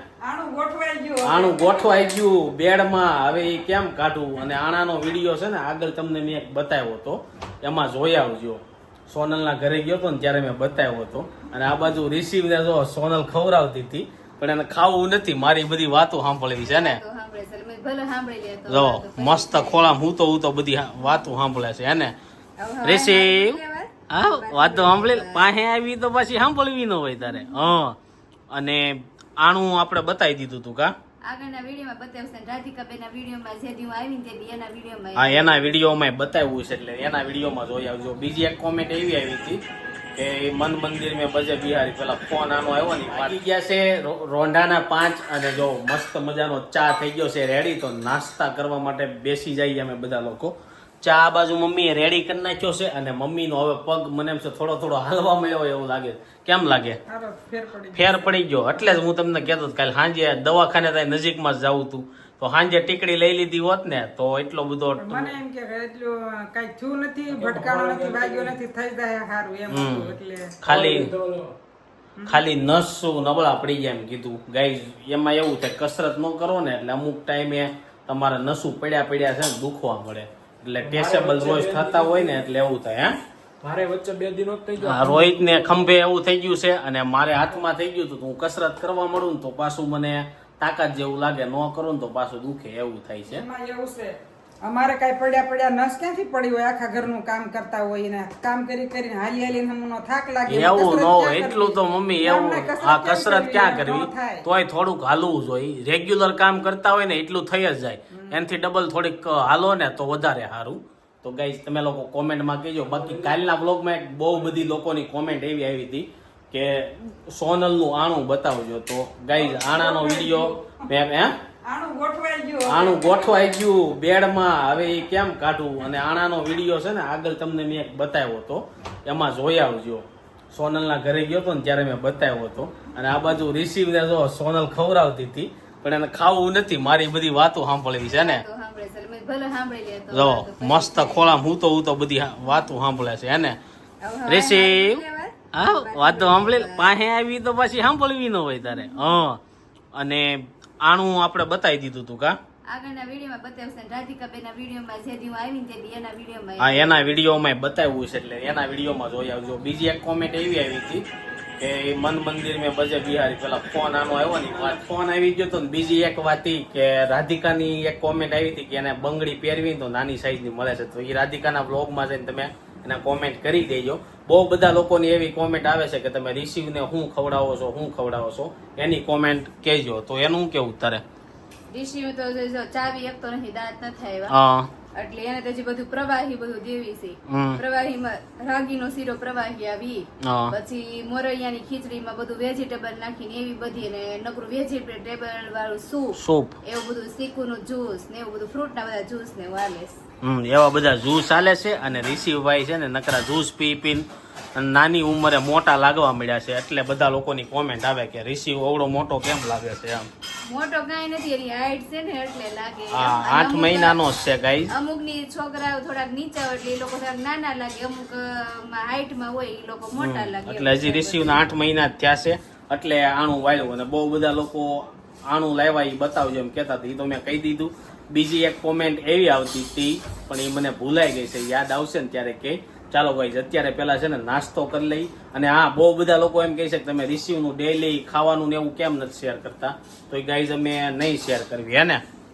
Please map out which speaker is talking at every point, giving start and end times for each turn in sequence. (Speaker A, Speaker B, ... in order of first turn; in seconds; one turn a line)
Speaker A: 0.2-2.2
Speaker B: 1.2-17.0
Speaker C: 16.6-19.9
Speaker B: 18.7-22.1
Speaker C: 22.6-25.4
Speaker B: 22.8-23.6
Speaker B: 24.1-28.0
Speaker C: 27.2-27.6
Speaker B: 28.5-30.9
Speaker C: 31.3-35.5
Speaker B: 35.2-39.6
Speaker B: 40.2-57.0
Speaker A: 57.1-58.3
Speaker B: 57.9-65.3
Speaker A: 65.0-70.6
Speaker D: 67.3-68.5
Speaker B: 69.7-71.1
Speaker D: 70.6-71.5
Speaker B: 72.3-83.2
Speaker D: 80.8-82.5
Speaker D: 83.6-85.9
Speaker B: 84.8-93.5
Speaker A: 93.3-104.5
Speaker B: 100.5-121.3
Speaker D: 112.9-113.3
Speaker A: 119.3-120.6
Speaker A: 121.7-123.7
Speaker B: 122.7-138.4
Speaker C: 138.1-141.4
Speaker B: 140.1-143.6
Speaker C: 144.0-146.9
Speaker B: 144.3-149.4
Speaker C: 148.7-149.2
Speaker B: 149.9-152.4
Speaker C: 152.7-157.0
Speaker B: 156.6-161.1
Speaker B: 161.6-181.0
Speaker C: 181.7-184.3
Speaker B: 184.3-184.7
Speaker C: 184.9-200.0
Speaker B: 187.3-187.6
Speaker B: 190.2-190.6
Speaker B: 196.2-196.6
Speaker B: 200.2-210.1
Speaker C: 210.5-214.0
Speaker B: 212.9-214.7
Speaker C: 214.7-221.4
Speaker B: 220.0-242.0